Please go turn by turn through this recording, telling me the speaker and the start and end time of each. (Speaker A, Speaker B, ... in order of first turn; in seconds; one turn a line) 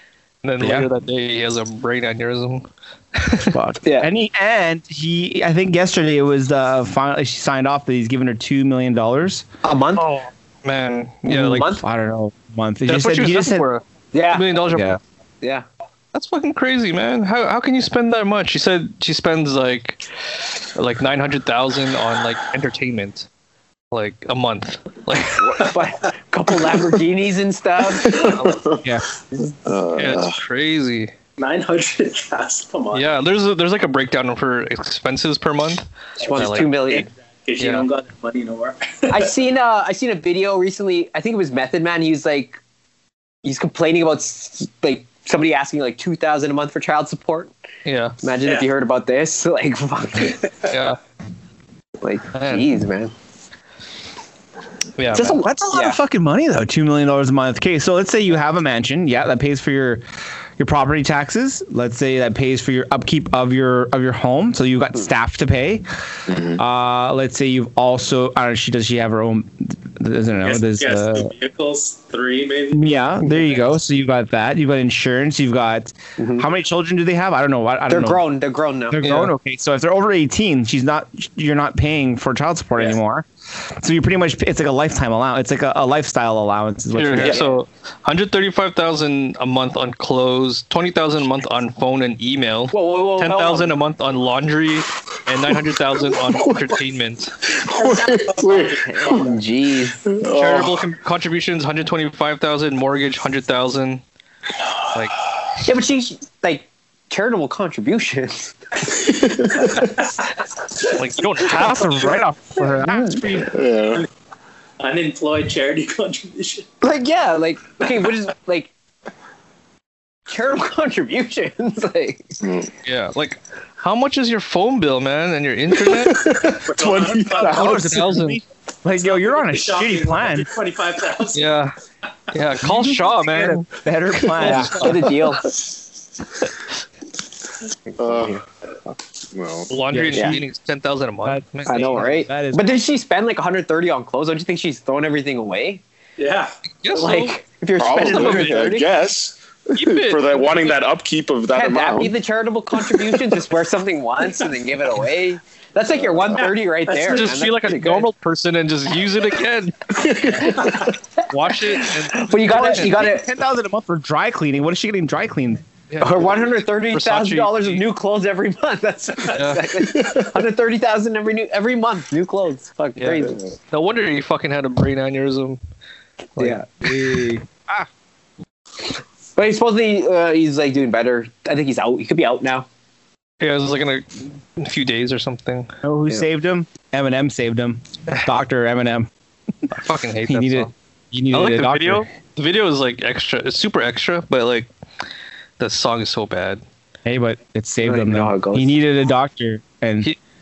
Speaker A: 0.4-3.6
Speaker B: 0.6-0.9
Speaker B: 3.5-9.4
Speaker C: 3.8-4.1
Speaker C: 9.6-10.0
Speaker A: 9.9-11.7
Speaker C: 11.3-11.8
Speaker B: 11.3-13.7
Speaker A: 12.8-15.0
Speaker C: 14.1-14.5
Speaker B: 14.7-15.0
Speaker A: 16.1-20.0
Speaker A: 20.7-23.3
Speaker A: 23.9-25.7
Speaker C: 25.4-28.4
Speaker D: 28.0-28.9
Speaker A: 28.1-28.6
Speaker D: 29.6-30.4
Speaker A: 29.9-31.1
Speaker E: 31.4-33.1
Speaker A: 32.9-36.7
Speaker C: 36.2-37.1
Speaker E: 36.8-39.3
Speaker A: 37.6-37.9
Speaker C: 39.1-42.6
Speaker C: 43.4-47.5
Speaker A: 47.8-48.1
Speaker C: 48.2-50.5
Speaker A: 50.7-51.0
Speaker C: 52.0-53.1
Speaker A: 52.3-52.7
Speaker A: 55.0-55.4
Speaker C: 55.1-56.0
Speaker B: 55.1-60.0
Speaker B: 60.6-65.8
Speaker D: 66.3-66.6
Speaker B: 66.5-71.3
Speaker E: 70.4-72.8
Speaker B: 72.7-78.2
Speaker C: 76.2-76.5
Speaker C: 77.9-79.2
Speaker B: 78.9-87.4
Speaker A: 79.0-79.3
Speaker A: 86.9-97.4
Speaker C: 87.2-87.6
Speaker C: 92.7-93.7
Speaker D: 97.5-99.2
Speaker E: 97.8-99.2
Speaker C: 98.5-100.0
Speaker D: 100.0-100.8
Speaker A: 100.3-104.0
Speaker C: 105.6-109.1
Speaker D: 109.3-109.7
Speaker E: 109.7-110.0
Speaker A: 110.9-112.2
Speaker B: 111.5-113.5
Speaker D: 113.5-114.0
Speaker E: 114.8-116.7
Speaker C: 116.8-118.7
Speaker C: 120.3-122.3
Speaker A: 122.8-126.3
Speaker D: 125.9-127.8
Speaker E: 126.6-127.7
Speaker B: 127.3-130.5
Speaker A: 127.5-128.4
Speaker E: 129.0-131.5
Speaker A: 131.3-131.7
Speaker A: 132.3-133.7
Speaker B: 132.6-135.1
Speaker A: 134.2-135.1
Speaker C: 134.4-135.5
Speaker C: 137.9-138.4
Speaker D: 138.0-138.4
Speaker D: 139.3-139.7
Speaker A: 139.7-142.0
Speaker B: 139.9-140.4
Speaker C: 140.1-140.4
Speaker B: 141.2-142.7
Speaker C: 141.7-145.8
Speaker E: 146.2-146.5
Speaker A: 146.8-147.3
Speaker C: 146.9-148.9
Speaker D: 147.8-152.1
Speaker A: 147.9-148.7
Speaker A: 149.7-150.8
Speaker C: 151.5-158.1
Speaker E: 156.9-157.3
Speaker A: 157.0-160.3
Speaker D: 160.0-160.8
Speaker C: 160.3-160.9
Speaker A: 161.3-163.1
Speaker C: 162.1-163.3
Speaker B: 162.5-165.6
Speaker A: 165.9-166.3
Speaker C: 166.0-173.4
Speaker A: 166.9-167.8
Speaker A: 169.3-169.7
Speaker A: 173.0-175.6
Speaker C: 176.4-177.4
Speaker B: 177.1-177.9
Speaker C: 179.3-182.7
Speaker A: 183.4-185.7
Speaker B: 185.8-189.1
Speaker A: 189.7-190.7
Speaker B: 190.3-192.1
Speaker A: 191.3-194.7
Speaker A: 195.6-196.6
Speaker B: 197.0-200.1
Speaker C: 197.8-198.7